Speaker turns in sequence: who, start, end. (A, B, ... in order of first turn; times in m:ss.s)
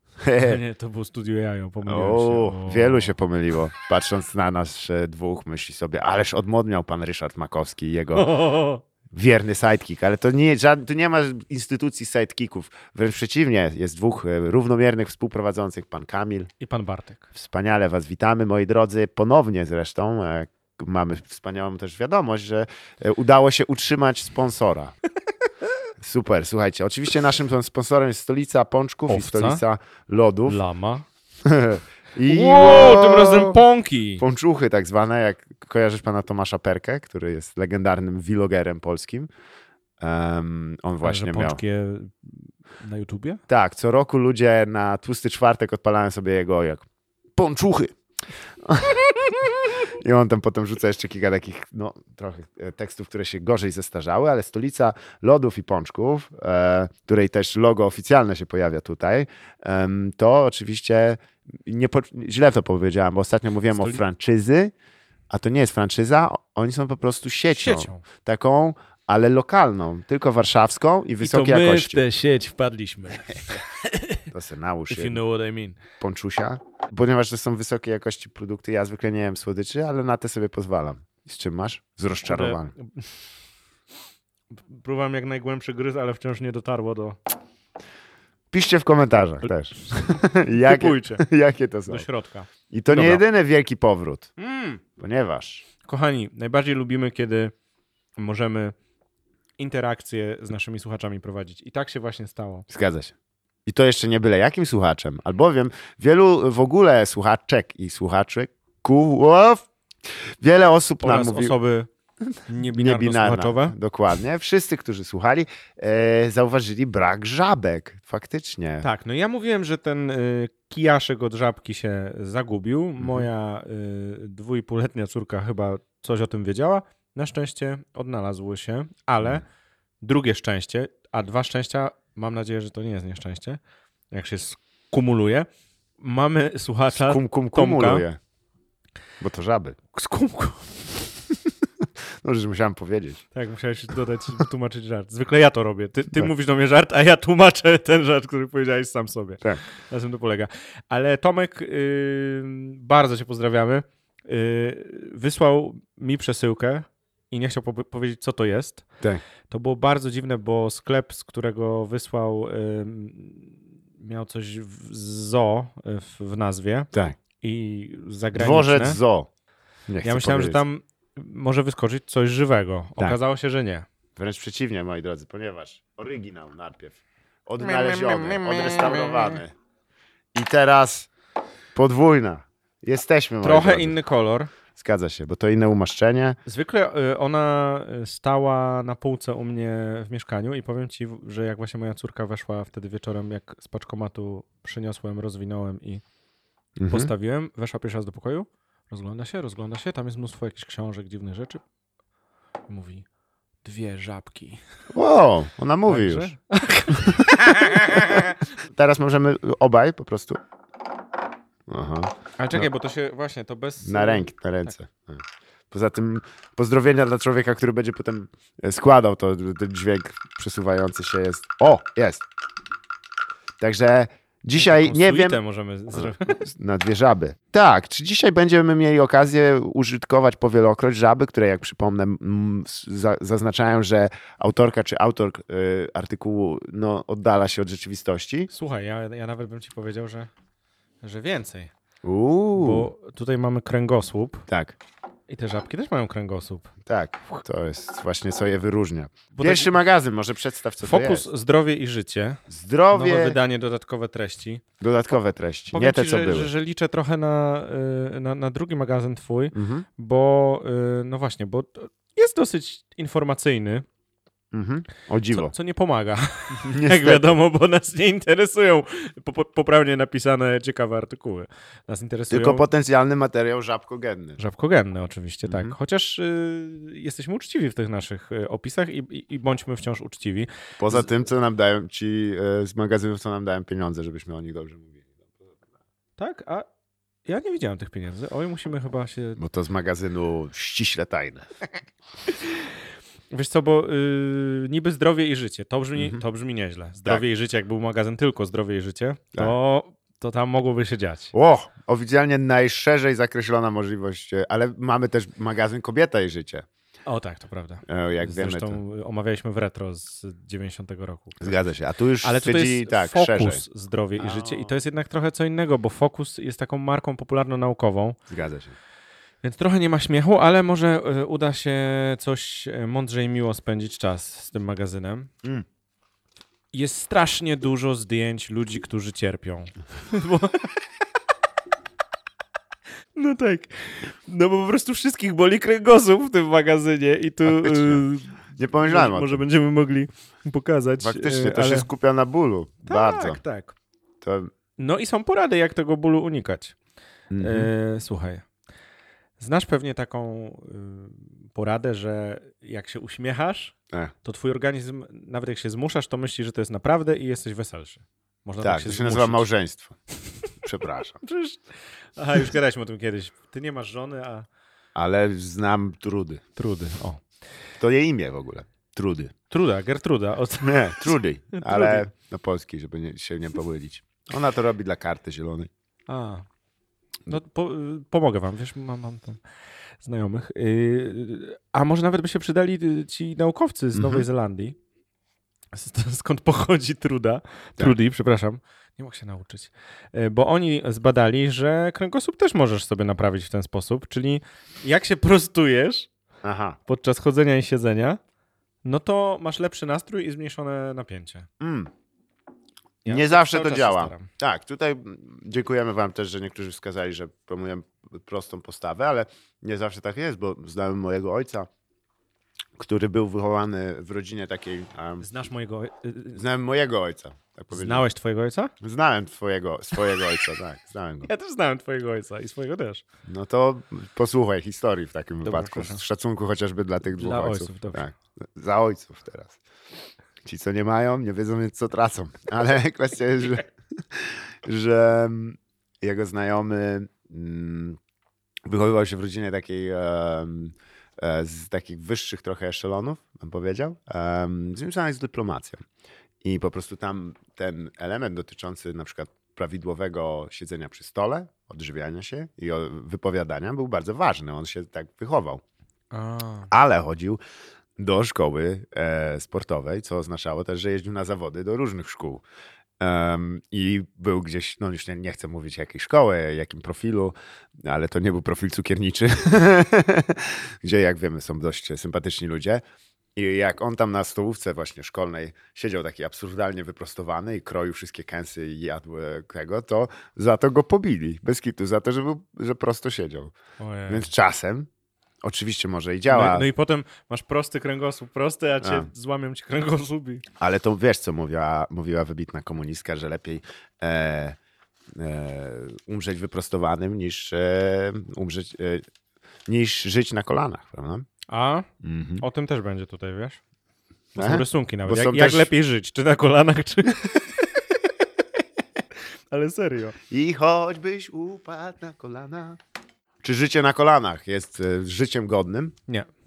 0:00.2-0:00.6 A
0:00.4-0:03.1 B
0:01.8-0:08.3 A
0:08.1-0:08.8 B
0:09.1-0:16.5 A
0:16.6-0:17.3 B
0:17.3-0:24.9 A
0:26.0-0:30.6 A
0:29.1-0:29.6 B
0:30.5-0:31.0 B
0:31.4-0:33.6 A
0:32.2-0:34.2 B
0:34.2-0:39.3 A
0:40.0-0:41.6 A
0:41.0-0:43.4 B
0:43.5-0:48.0 A
0:48.6-1:04.7 A
1:03.7-1:04.0 B
1:05.3-1:12.0 A
1:07.5-1:08.0 B
1:11.2-1:14.2 B
1:14.3-1:15.2 A
1:14.9-1:15.8 B
1:16.0-1:22.7 A
1:22.2-1:23.1 B
1:24.6-1:27.2 B
1:28.5-1:32.1 A
1:30.0-1:31.2 B
1:31.9-1:33.2 B
1:32.7-1:34.3 A
1:34.4-1:34.8 B
1:35.0-1:35.6 A
1:35.8-1:37.5 B
1:38.2-1:38.7 B
1:39.6-1:42.6 B
1:42.7-1:43.1 A
1:43.6-1:49.6 A
1:50.4-1:51.6 A
1:51.0-1:51.9 B
1:52.3-1:58.9 A
1:52.5-1:53.8 B
1:58.8-2:09.4 B
2:03.0-2:03.3 A
2:10.0-2:13.6 B
2:14.1-2:15.5 B
2:16.0-2:18.1 B
2:16.9-2:18.2 A
2:19.2-2:19.8 A
2:19.9-2:21.0 B
2:22.2-2:23.2 A
2:23.3-2:38.8 B
2:39.5-2:46.9 B
2:47.4-2:49.0 B
2:48.3-2:49.3 A
2:49.9-2:50.6 A
2:50.0-2:53.9 B
2:54.2-2:59.5 A
2:57.6-2:59.4 B
3:00.3-3:01.1 A
3:01.7-3:04.0 A
3:03.4-3:04.5 B
3:04.7-3:06.4 A
3:06.4-3:16.0 B
3:16.8-3:17.1 A
3:16.9-3:21.6 B
3:22.7-3:23.0 B
3:23.6-3:24.6 B
3:24.9-3:26.3 A
3:25.8-3:28.4 B
3:27.0-3:30.4 A
3:31.7-3:32.7 A
3:32.4-3:34.7 B
3:33.8-3:42.2 A
3:43.6-3:45.4 A
3:44.6-3:46.4 B
3:45.9-3:58.5 A
3:58.5-4:00.3 B
4:01.0-4:01.7 B
4:02.0-4:02.9 A
4:02.6-4:04.4 B
4:04.5-4:04.8 A
4:05.3-4:06.7 B
4:06.9-4:11.3 A
4:09.3-4:09.8 B
4:10.8-4:14.6 B
4:12.5-4:13.4 A
4:14.8-4:16.5 A
4:15.7-4:23.8 B
4:19.5-4:19.8 A
4:24.5-4:25.5 A
4:25.3-4:32.6 B
4:26.5-4:27.3 A
4:32.3-4:34.4 A
4:34.4-4:41.1 B
4:35.4-4:35.7 A
4:40.8-4:45.6 A
4:46.2-4:46.7 B
4:47.2-4:49.4 B
4:49.4-4:51.5 A
4:53.3-5:01.3 B
4:56.0-4:56.2 A
5:01.3-5:06.6 A
5:07.0-5:11.6 B
5:07.9-5:08.8 A
5:11.4-5:13.6 A
5:12.2-5:18.2 B
5:14.2-5:14.8 A
5:18.3-5:18.7 A
5:19.4-5:25.3 B
5:26.7-5:30.7 B
5:33.1-5:41.9 B
5:37.4-5:39.4 A
5:41.0-5:43.4 A
5:42.8-5:43.7 B
5:44.2-5:44.5 A
5:44.8-5:46.8 B
5:47.3-5:47.7 A
5:47.4-5:48.4 B
5:49.4-5:59.5 B
5:58.6-6:00.0 A
6:00.6-6:01.2 A
6:01.2-6:01.6 B
6:02.2-6:04.5 B
6:04.9-6:06.4 A
6:06.6-6:07.2 B
6:07.8-6:09.3 A
6:09.5-6:12.0 B
6:10.6-6:15.7 A
6:16.1-6:16.4 B
6:17.3-6:19.4 B
6:20.0-6:24.8 B
6:23.9-6:24.2 A
6:25.7-6:36.1 B
6:36.4-6:36.8 A
6:36.8-6:38.2 B
6:38.8-6:41.5 B
6:41.6-6:41.9 A
6:43.0-6:44.3 B
6:43.0-6:51.7 A
6:52.8-6:55.3 A
6:55.2-6:56.4 B
6:56.3-6:58.1 A
6:57.7-6:58.7 B
6:58.8-7:01.3 A
7:01.2-7:03.0 B
7:03.3-7:09.6 A
7:05.4-7:06.0 B
7:07.0-7:08.0 B
7:10.4-7:18.0 A
7:18.6-7:25.8 A
7:26.4-7:35.6 A
7:36.1-7:36.7 B
7:36.7-7:37.4 A
7:38.0-7:42.4 A
7:43.0-7:52.8 A
7:53.4-8:03.5 A
8:03.8-8:04.3 B
8:04.1-8:04.9 A
8:05.4-8:06.7 A
8:06.2-8:10.4 B
8:08.8-8:09.1 A
8:10.6-8:14.6 A
8:15.1-8:19.0 A
8:19.7-8:21.2 A
8:21.5-8:21.9 B
8:22.0-8:22.4 A
8:22.4-8:23.6 B
8:24.4-8:25.7 A
8:24.4-8:27.8 B
8:29.5-8:30.2 B
8:30.3-8:32.8 A
8:33.4-8:35.9 A